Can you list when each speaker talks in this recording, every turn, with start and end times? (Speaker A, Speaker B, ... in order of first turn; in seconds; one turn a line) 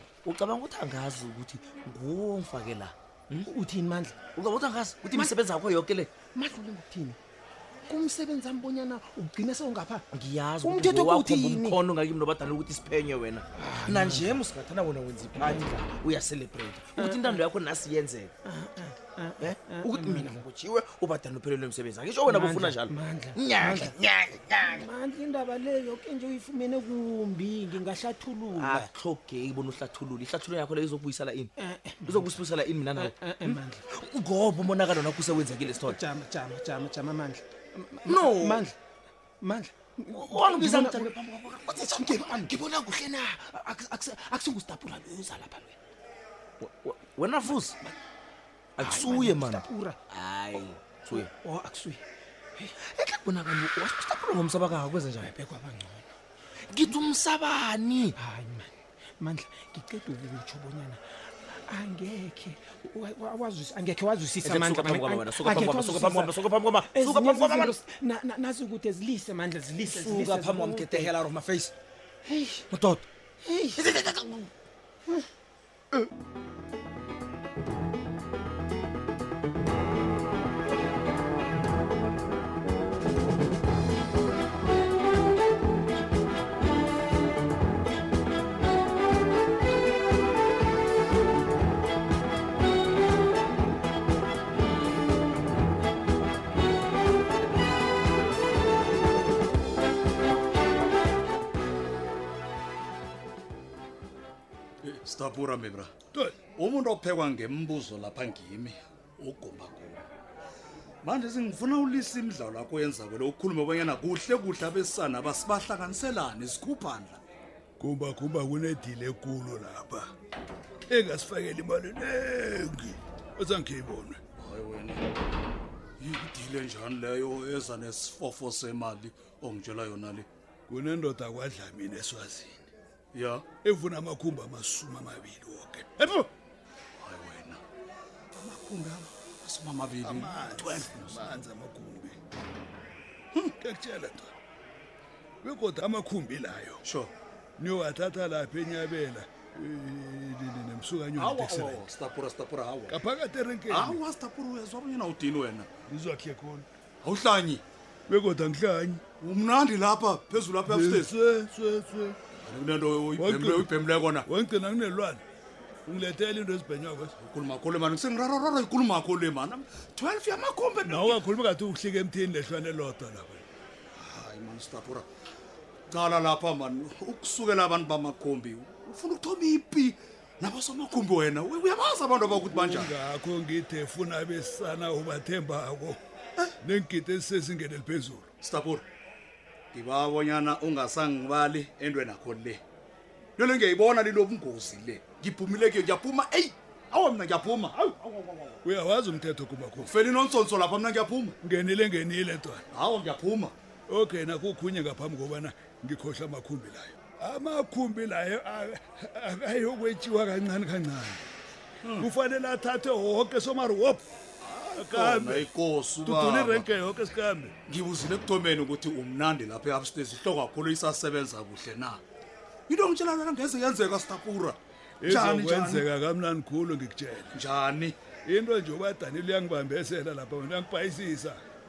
Speaker A: 0.2-3.5
Speaker B: 3.4-4.2
Speaker A: 4.2-6.2
Speaker B: 5.1-5.4
Speaker B: 6.3-7.2
Speaker B: 7.9-10.0
Speaker A: 10.1-18.3
Speaker B: 10.6-11.8
Speaker B: 13.6-14.4
Speaker B: 15.4-15.9
Speaker B: 16.9-17.4
Speaker B: 18.4-20.4
Speaker A: 19.4-24.8
Speaker B: 22.2-24.0
Speaker B: 24.6-28.9
Speaker A: 28.5-31.5
Speaker B: 31.6-32.4
Speaker A: 32.0-36.0
Speaker B: 32.9-33.8
Speaker B: 35.8-38.7
Speaker A: 38.0-38.6
Speaker B: 39.4-45.8
Speaker A: 40.1-42.6
Speaker A: 46.6-47.8
Speaker A: 48.8-51.3
Speaker B: 48.8-50.0
Speaker B: 51.1-52.0
Speaker A: 52.8-55.3
Speaker B: 55.2-56.0
Speaker A: 56.7-58.2
Speaker B: 58.2-61.0
Speaker B: 61.7-71.2
Speaker A: 64.4-67.8
Speaker A: 69.8-71.7
Speaker B: 72.3-72.7
Speaker A: 72.7-73.0
Speaker B: 73.4-73.9
Speaker A: 73.8-74.5
Speaker C: 104.8-105.9
Speaker D: 106.1-106.4
Speaker C: 106.5-110.0
Speaker C: 111.0-117.2
Speaker D: 117.8-120.1
Speaker D: 120.9-124.2
Speaker C: 124.4-125.0
Speaker C: 126.0-130.3
Speaker D: 130.7-132.6
Speaker C: 133.1-133.5
Speaker D: 133.6-136.1
Speaker C: 137.0-137.6
Speaker C: 138.3-141.4
Speaker D: 140.0-142.2
Speaker D: 143.6-144.3
Speaker D: 145.4-146.8
Speaker C: 146.8-147.1
Speaker D: 147.6-151.8
Speaker C: 151.2-153.0
Speaker D: 152.9-154.0
Speaker C: 153.7-155.7
Speaker D: 155.9-156.7
Speaker C: 157.0-157.6
Speaker D: 158.1-159.0
Speaker C: 159.2-161.1
Speaker D: 160.7-162.2
Speaker C: 162.4-164.2
Speaker D: 163.2-163.7
Speaker D: 164.2-165.2
Speaker D: 165.9-167.1
Speaker C: 167.2-171.2
Speaker D: 170.8-173.4
Speaker C: 173.9-175.1
Speaker C: 175.9-182.9
Speaker D: 182.5-186.0
Speaker D: 186.6-188.3
Speaker C: 188.4-188.8
Speaker C: 189.7-192.6
Speaker C: 193.4-198.6
Speaker D: 198.6-199.9
Speaker C: 199.8-201.3
Speaker D: 201.4-202.6
Speaker C: 202.7-203.5
Speaker D: 203.9-211.2
Speaker C: 211.8-212.1
Speaker D: 211.9-214.0
Speaker C: 214.4-216.7
Speaker D: 214.8-215.5
Speaker D: 216.0-217.5
Speaker C: 217.7-222.0
Speaker C: 222.7-225.8
Speaker D: 225.0-227.3
Speaker C: 227.3-227.9
Speaker D: 228.2-231.4